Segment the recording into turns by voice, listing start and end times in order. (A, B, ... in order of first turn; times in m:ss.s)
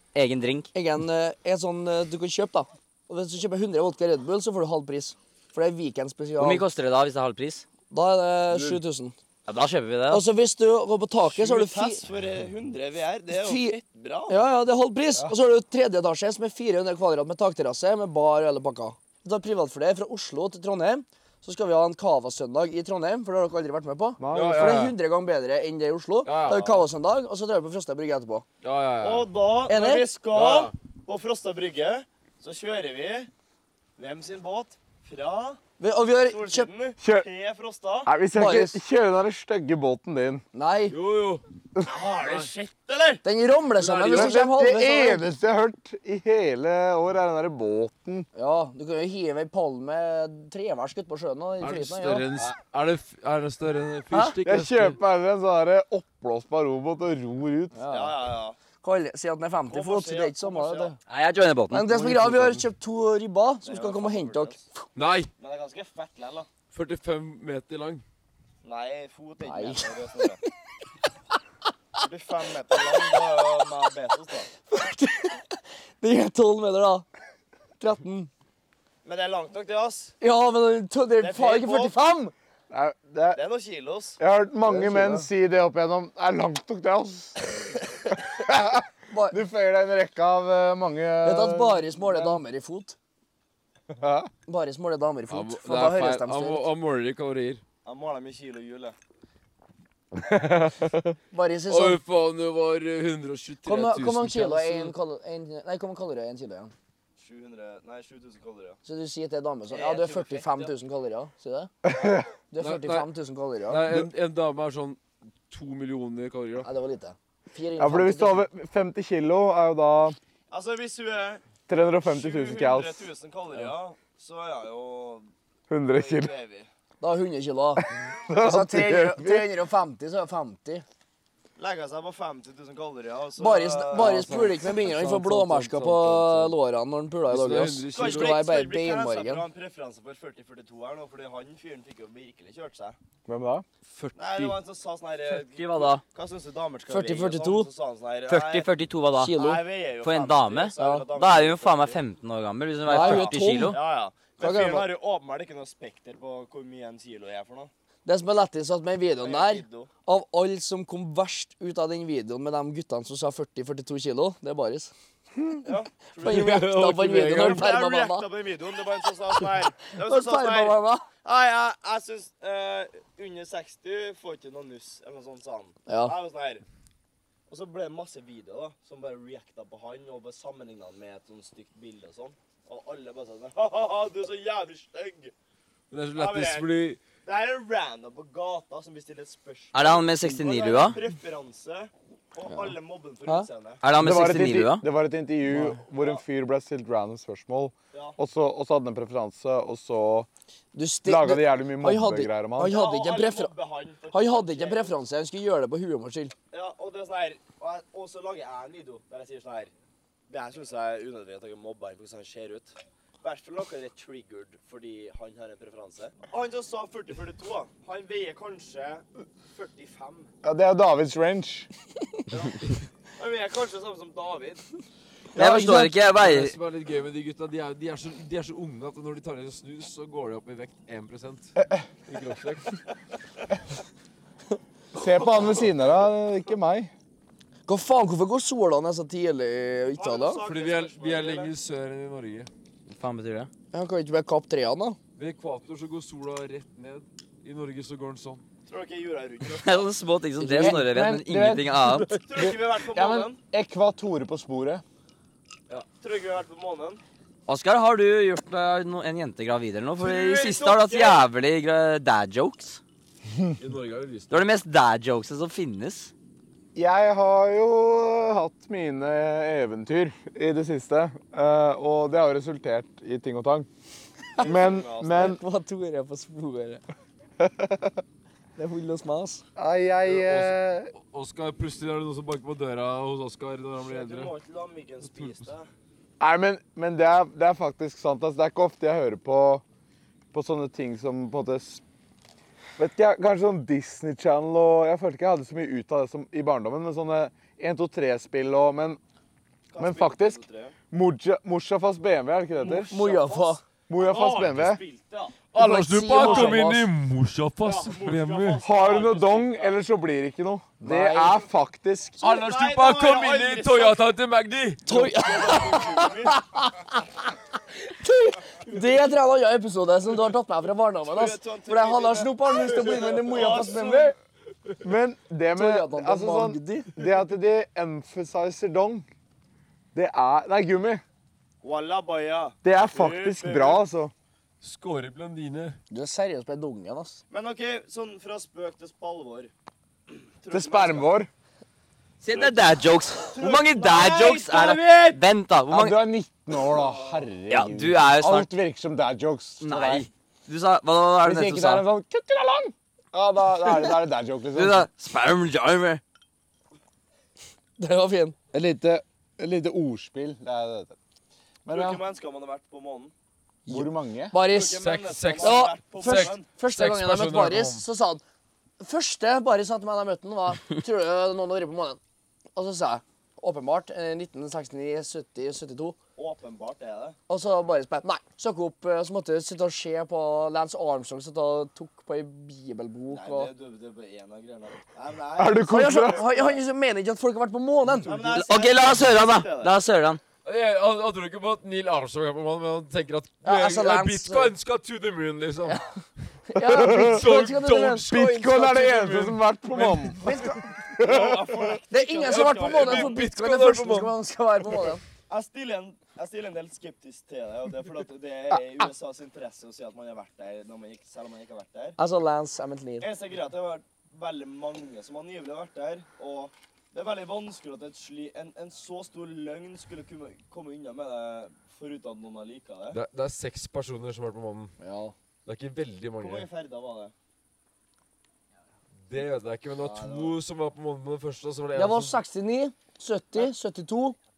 0:00.1-0:00.7 A
0:00.7-0:06.6 B
0:06.4-0:07.6 A
0:07.9-0:09.1 B
0:09.5-0:10.2 A
0:10.1-0:12.0 B
0:11.2-0:14.4 C
0:13.3-0:13.8 B
0:14.3-0:28.4 B
0:24.2-0:24.9 D
0:24.3-0:24.9 E
0:26.2-0:26.8 E
0:28.6-0:29.3 E
0:29.0-0:33.3 C
0:29.7-0:30.1 B
0:30.3-0:30.7 E
0:34.0-0:35.6 C
0:35.8-0:36.7 B
0:36.2-0:38.1 C
0:37.0-0:37.3 D
0:38.0-0:40.4 D
0:38.4-0:38.8 B
0:40.5-0:41.0 B
0:40.9-0:41.4 E
0:41.8-0:43.2 C
0:42.2-0:42.5 E
0:43.2-0:45.2 B
0:43.8-0:44.3 E
0:44.0-0:48.3 D
0:48.4-0:52.2 B
0:51.6-0:55.0 E
0:54.4-0:57.8 D
0:57.7-0:58.1 B
0:57.9-0:58.6 C
0:58.8-1:01.0 B
0:59.7-1:00.9 C
1:01.1-1:02.6 A
1:01.7-1:04.8 B
1:03.6-1:04.6 C
1:05.0-1:05.3 E
1:05.4-1:06.5 C
1:06.7-1:08.0 E
1:08.6-1:10.4 C
1:09.4-1:10.4 B
1:12.0-1:14.5 C
1:12.7-1:13.2 B
1:14.7-1:17.1 B
1:17.8-1:18.3 B
1:19.0-1:20.1 C
1:20.2-1:22.2 B
1:21.2-1:22.0 C
1:22.0-1:23.4 D
1:23.3-1:24.2 C
1:24.2-1:32.4 D
1:24.6-1:25.3 B
1:29.1-1:29.4 B
1:31.2-1:33.0 B
1:33.9-1:34.3 D
1:34.5-1:36.7 B
1:35.3-1:37.6 E
1:37.8-1:38.9 C
1:40.2-1:41.0 D
1:41.3-1:42.0 B
1:41.7-1:45.0 E
1:43.6-1:46.7 B
1:47.2-1:48.8 C
1:48.8-1:51.7 B
1:49.7-1:50.7 C
1:51.8-1:52.3 D
1:52.5-1:53.8 B
1:52.6-1:53.1 E
1:53.7-1:56.7 E
1:56.6-1:58.4 B
1:57.8-2:00.2 D
2:00.5-2:01.4 C
2:01.7-2:03.1 D
2:02.0-2:05.3 C
2:05.7-2:06.3 D
2:05.9-2:06.7 C
2:07.0-2:10.8 B
2:08.2-2:09.5 D
2:11.6-2:14.3 C
2:13.4-2:19.4 B
2:13.9-2:16.6 E
2:17.3-2:18.4 E
2:17.9-2:23.0 C
2:23.2-2:23.6 D
2:23.9-2:24.6 E
2:24.2-2:28.7 C
2:25.3-2:26.0 A
2:26.9-2:27.7 B
2:28.3-2:29.4 A
2:29.2-2:29.6 B
2:29.3-2:32.0 C
2:30.0-2:33.8 A
2:30.8-2:31.1 B
2:32.8-2:33.8 B
2:32.9-2:37.7 C
2:34.4-2:34.9 B
2:38.0-2:44.9 B
2:39.2-2:39.9 C
2:45.6-2:46.8 C
2:46.2-2:48.3 B
2:46.2-2:47.6 E
2:47.4-2:56.6 C
2:50.0-2:51.1 B
2:55.9-2:56.1 B
2:57.5-3:05.3 C
3:05.9-3:07.0 E
3:06.1-3:06.7 C
3:07.2-3:13.8 C
3:09.7-3:11.0 A
3:13.8-3:14.8 A
3:13.9-3:20.3 D
3:15.5-3:15.8 B
3:20.8-3:23.5 B
3:21.0-3:22.8 D
3:22.6-3:24.9 C
3:24.1-3:26.3 B
3:26.5-3:29.7 C
3:30.3-3:40.3 C
3:40.4-3:41.7 D
3:42.3-3:44.6 C
3:45.4-3:45.9 B
3:45.4-3:46.6 A
3:46.1-3:51.5 E
3:52.1-3:52.8 E
3:54.9-3:56.9 D
3:57.7-4:00.4 B
4:00.0-4:01.5 C
4:00.4-4:02.5 E
4:02.9-4:03.5 A
4:03.7-4:05.0 B
4:05.2-4:08.4 E
4:08.7-4:09.9 C
4:09.6-4:12.2 A
4:10.4-4:10.8 B
4:10.6-4:14.8 D
4:12.2-4:13.4 C
4:15.7-4:17.0 C
4:17.5-4:22.8 A
4:20.0-4:21.3 C
4:23.6-4:24.3 E
4:24.3-4:26.1 A
4:26.8-4:33.7 D
4:34.4-4:35.4 C
4:34.4-4:35.4 D
4:35.1-4:36.8 B
4:37.4-4:38.0 D
4:38.6-4:39.4 B
4:39.6-4:40.9 D
4:40.1-4:44.3 E
4:43.8-4:45.7 C
4:45.1-4:45.4 E
4:46.2-4:49.6 D
4:50.3-4:51.8 D
4:52.8-4:59.0 D
4:59.7-5:00.8 C
4:59.8-5:02.9 D
5:02.6-5:05.4 C
5:02.9-5:03.6 B
5:03.9-5:04.8 D
5:05.5-5:08.6 E
5:05.5-5:06.9 B
5:06.1-5:06.6 C
5:07.6-5:09.8 C
5:08.6-5:12.2 D
5:10.8-5:11.4 B
5:12.2-5:14.0 C
5:12.2-5:14.9 E
5:14.8-5:16.4 C
5:14.8-5:17.1 B
5:17.8-5:24.1 B
5:21.0-5:24.1 C
5:24.8-5:29.1 D
5:25.5-5:27.0 B
5:29.9-5:31.0 D
5:31.6-5:33.8 C
5:32.6-5:34.1 D
5:34.6-5:35.8 E
5:35.9-5:37.2 B
5:37.3-5:39.5 C
5:40.1-5:41.1 C
5:40.5-5:41.3 D
5:42.2-5:46.0 A
5:42.3-5:42.8 C
5:43.3-5:45.2 C
5:45.7-5:50.1 D
5:46.8-5:47.1 C
5:47.5-5:48.5 A
5:49.6-5:51.8 A
5:51.2-5:54.9 D
5:54.5-5:56.0 A
5:57.8-5:58.4 B
5:58.5-6:01.0 D
6:01.6-6:02.0 D
6:01.7-6:03.1 C
6:03.6-6:04.8 B
6:03.7-6:04.4 D
6:04.4-6:06.4 C
6:04.8-6:07.8 E
6:05.4-6:08.2 B
6:08.8-6:12.0 B
6:12.5-6:16.0 B
6:16.2-6:17.2 C
6:17.3-6:23.5 B
6:23.1-6:26.6 C
6:25.4-6:26.2 D
6:25.6-6:28.3 B
6:28.0-6:29.8 C
6:28.3-6:30.2 A
6:30.4-6:35.8 E
6:33.4-6:34.5 B
6:36.5-6:38.1 B
6:36.6-6:37.2 D
6:36.8-6:40.2 E
6:38.1-6:41.8 D
6:40.2-6:40.6 B
6:41.0-6:43.2 C
6:41.9-6:45.0 B
6:42.2-6:44.2 E
6:45.3-6:52.0 C
6:52.0-6:53.1 B
6:53.0-7:03.0 C
7:02.9-7:04.7 E
7:04.8-7:05.1 B
7:05.4-7:06.5 E
7:06.2-7:07.1 C
7:09.1-7:12.2 E
7:09.8-7:10.4 C
7:11.7-7:14.2 B